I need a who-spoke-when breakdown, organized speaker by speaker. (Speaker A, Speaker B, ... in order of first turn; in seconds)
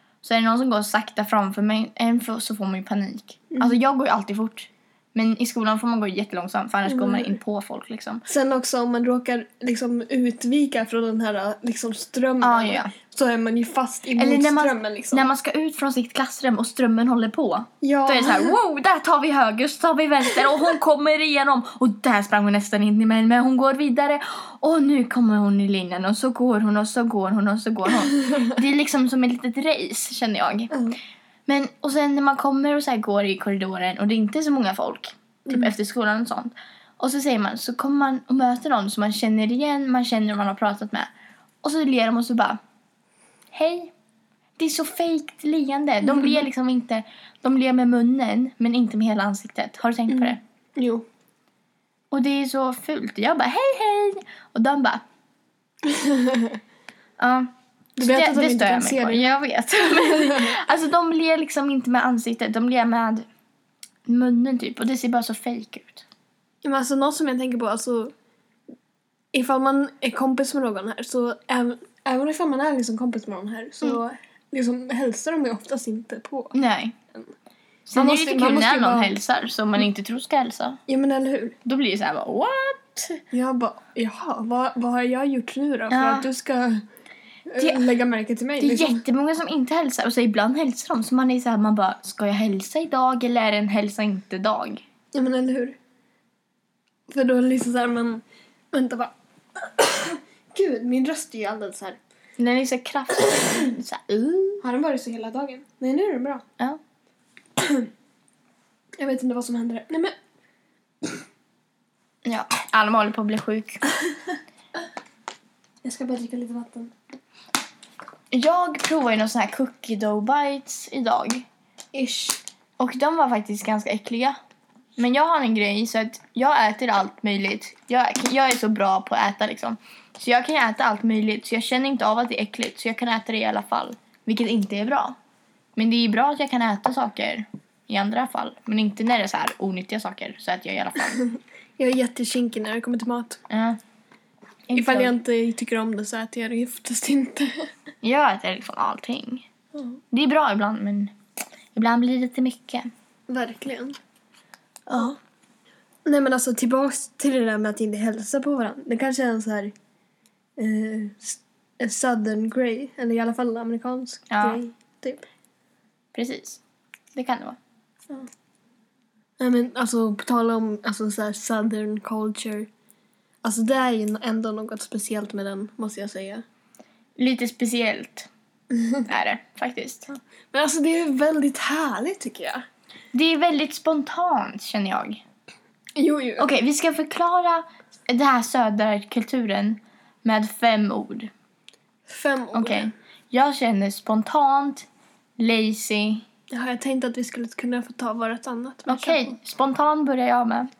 Speaker A: 0.2-8.2, 12.4-12.9, 14.2-30.7, 31.5-41.1, 41.6-42.6, 43.5-43.9, 44.6-50.4, 52.1-55.0, 57.2-63.3, 64.0-66.0, 76.5-77.0, 77.8-80.8, 81.6-83.2, 85.9-86.3, 87.6-87.8, 88.6-94.8, 102.4-104.6, 112.2-113.8, 118.3-121.5, 122.8-124.4, 125.0-135.2, 135.8-141.2, 143.5-143.8, 144.7-145.2, 148.0-149.4, 150.1-151.1, 151.7-152.9, 154.9-155.1, 164.3-164.6, 166.1-166.6, 167.1-167.6, 177.2-178.3, 179.1-180.1, 183.1-185.2, 186.4-191.3, 192.5-194.9, 195.4-196.2, 198.9-200.7
Speaker B: 3.5-3.8, 6.8-7.3, 8.3-15.3, 17.8-18.5, 35.5-35.7, 50.1-51.0, 55.8-56.6, 58.0-59.3, 66.6-68.1, 69.3-76.5, 77.9-79.2, 80.9-81.5, 83.3-86.8, 87.5-89.0, 95.1-95.8, 97.1-102.0, 104.6-106.4, 107.6-107.9, 109.0-110.1, 115.8-116.9, 121.9-122.4, 141.8-143.4, 144.7-147.6, 153.3-154.0, 156.1-159.7, 160.6-165.2, 169.4-172.7, 173.4-176.4, 178.7-179.0, 180.5-182.6, 185.9-186.5, 192.1-192.9, 196.5-199.3